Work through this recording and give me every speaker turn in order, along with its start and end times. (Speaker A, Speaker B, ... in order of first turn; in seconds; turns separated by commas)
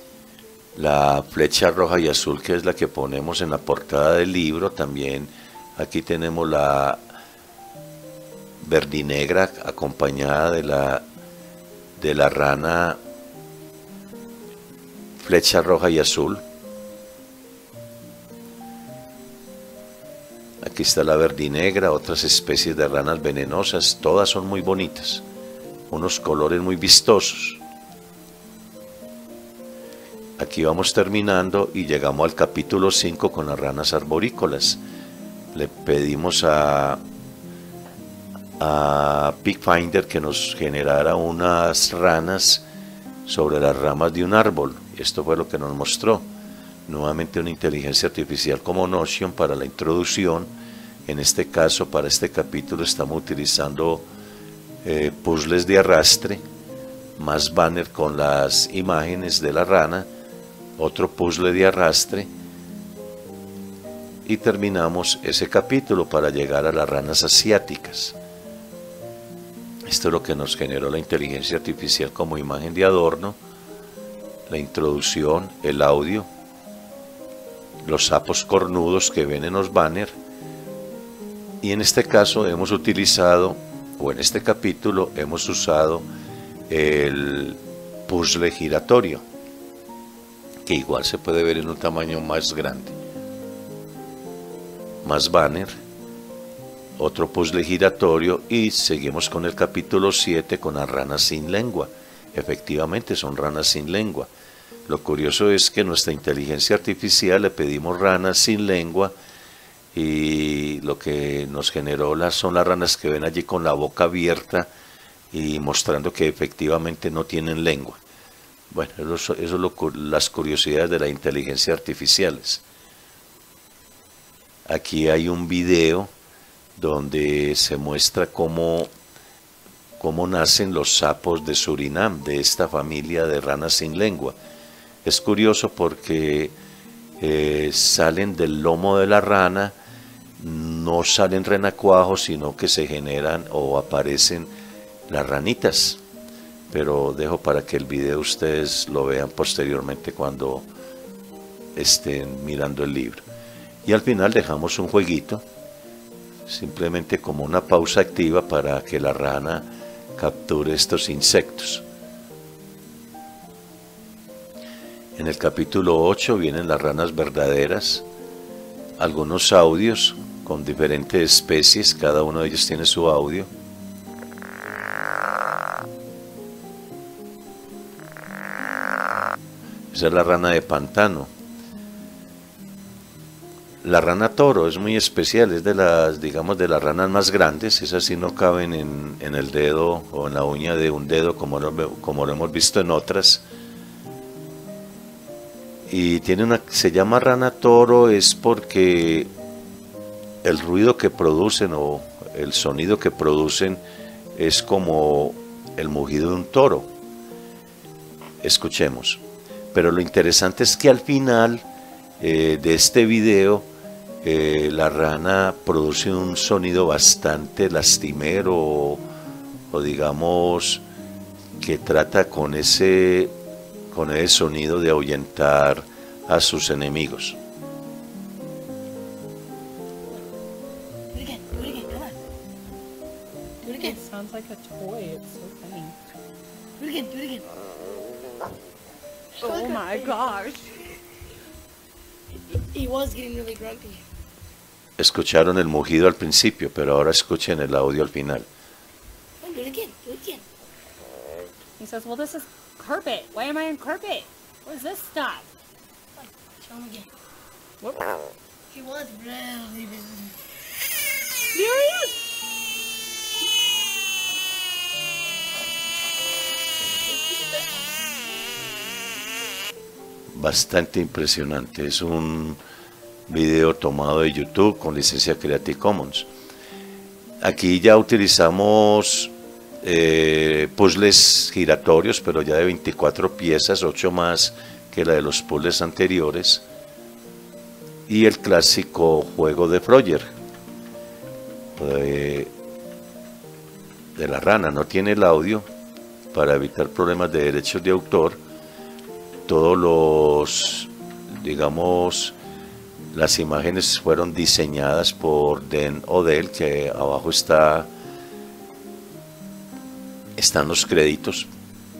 Speaker A: 0.7-7.0, Speaker A: 8.6-11.0, Speaker A: 12.0-13.0, Speaker A: 15.2-16.4, Speaker A: 20.6-25.2, Speaker A: 25.9-27.6, Speaker A: 30.4-34.8, Speaker A: 35.5-37.0, Speaker A: 38.6-42.6, Speaker A: 43.2-46.3, Speaker A: 46.9-50.5, Speaker A: 51.0-54.1, Speaker A: 54.8-56.4, Speaker A: 57.2-60.1, Speaker A: 60.8-62.3, Speaker A: 64.2-68.2, Speaker A: 69.9-73.4, Speaker A: 74.5-76.3, Speaker A: 77.8-80.1, Speaker A: 81.6-86.0, Speaker A: 86.7-89.2, Speaker A: 90.6-93.0, Speaker A: 95.0-95.7, Speaker A: 97.0-104.3, Speaker A: 104.9-109.1, Speaker A: 109.9-114.7, Speaker A: 115.3-118.0, Speaker A: 118.7-122.6, Speaker A: 124.7-126.1, Speaker A: 126.8-128.9, Speaker A: 130.0-134.3, Speaker A: 135.0-136.5, Speaker A: 137.2-139.7, Speaker A: 140.4-144.5, Speaker A: 145.1-146.0, Speaker A: 146.7-150.7, Speaker A: 151.7-153.2, Speaker A: 153.8-155.4, Speaker A: 156.4-161.8, Speaker A: 165.2-168.0, Speaker A: 169.0-173.5, Speaker A: 179.9-181.3, Speaker A: 183.8-193.4, Speaker A: 195.9-199.3, Speaker A: 200.4-203.8, Speaker A: 204.3-206.9, Speaker A: 208.4-209.2, Speaker A: 209.7-211.7, Speaker A: 212.2-213.7, Speaker A: 214.2-219.0, Speaker A: 219.7-220.8, Speaker A: 221.6-223.3, Speaker A: 223.9-227.4, Speaker B: 231.1-232.2, Speaker B: 233.6-234.0, Speaker C: 233.8-235.9, Speaker B: 236.8-237.4, Speaker B: 239.4-240.3, Speaker C: 239.4-240.7, Speaker B: 242.5-244.0, Speaker A: 245.0-248.5, Speaker B: 249.4-250.4, Speaker C: 251.8-255.5, Speaker B: 256.2-257.1, Speaker C: 257.8-258.1, Speaker B: 258.7-260.4, Speaker C: 261.5-262.1, Speaker B: 266.9-267.6, Speaker A: 270.3-272.6, Speaker A: 273.3-276.3, Speaker A: 277.4-286.6, Speaker A: 288.1-290.3, Speaker A: 291.8-292.5, Speaker A: 294.1-295.6, Speaker A: 296.3-298.4, Speaker A: 299.4-302.4, Speaker A: 303.1-307.9, Speaker A: 310.4-311.5